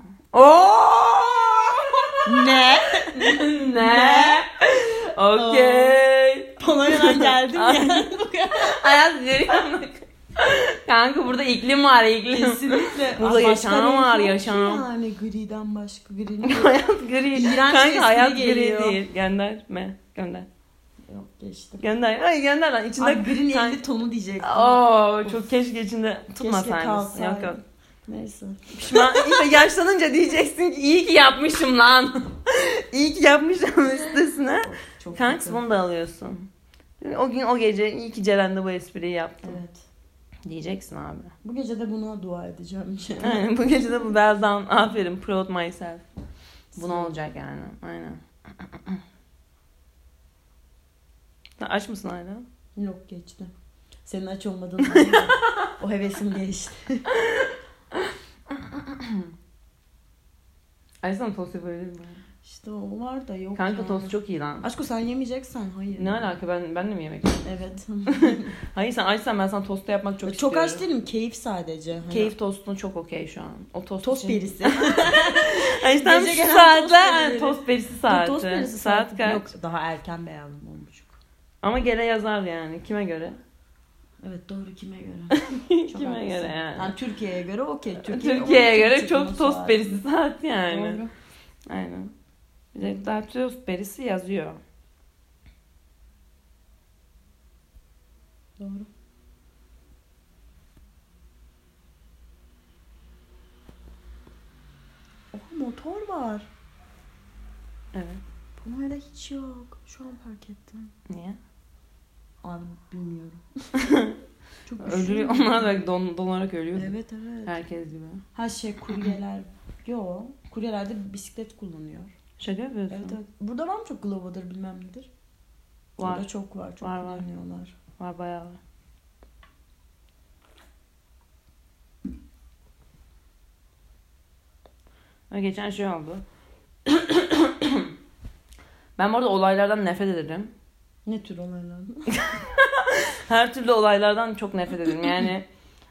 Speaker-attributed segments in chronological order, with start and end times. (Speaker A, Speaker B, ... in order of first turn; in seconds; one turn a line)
Speaker A: 0.3-8.0
Speaker B: 2.2-4.4
Speaker B: 5.2-6.0
Speaker B: 6.6-8.9
Speaker A: 8.6-14.8
Speaker B: 12.3-19.0
Speaker A: 16.4-20.5
Speaker B: 21.1-21.8
Speaker A: 21.8-23.8
Speaker B: 23.0-25.4
Speaker A: 24.4-27.6
Speaker B: 26.4-29.4
Speaker A: 28.7-36.5
Speaker B: 33.8-35.6
Speaker A: 37.0-39.6
Speaker B: 39.4-39.8
Speaker A: 40.4-41.3
Speaker B: 41.4-43.5
Speaker A: 43.2-46.0
Speaker B: 46.7-47.1
Speaker A: 46.8-49.0
Speaker A: 51.6-52.4
Speaker B: 52.8-53.5
Speaker B: 54.0-57.1
Speaker A: 54.9-55.4
Speaker A: 57.1-59.3
Speaker A: 61.0-62.2
Speaker B: 62.4-66.2
Speaker A: 63.5-64.7
Speaker A: 66.0-67.5
Speaker B: 67.4-68.5
Speaker A: 68.1-70.8
Speaker B: 70.2-72.3
Speaker A: 72.1-79.5
Speaker B: 74.0-81.2
Speaker A: 81.6-83.4
Speaker B: 84.2-90.0
Speaker A: 85.3-86.9
Speaker A: 88.0-91.0
Speaker B: 90.7-91.1
Speaker A: 91.7-92.1
Speaker A: 92.7-94.6
Speaker B: 98.6-98.9
Speaker B: 105.3-106.5
Speaker A: 107.9-108.2
Speaker B: 108.6-110.9
Speaker A: 111.1-111.4
Speaker B: 112.4-113.8
Speaker A: 113.8-114.2
Speaker B: 114.7-115.8
Speaker A: 114.8-116.9
Speaker B: 116.8-117.5
Speaker A: 117.5-118.2
Speaker B: 118.3-122.1
Speaker A: 122.4-123.2
Speaker B: 122.9-125.1
Speaker A: 126.0-126.3
Speaker B: 126.0-127.8
Speaker A: 126.8-127.3
Speaker A: 128.0-128.6
Speaker A: 135.3-136.2
Speaker A: 136.8-137.9
Speaker A: 139.0-140.5
Speaker B: 141.1-142.2
Speaker A: 142.1-145.4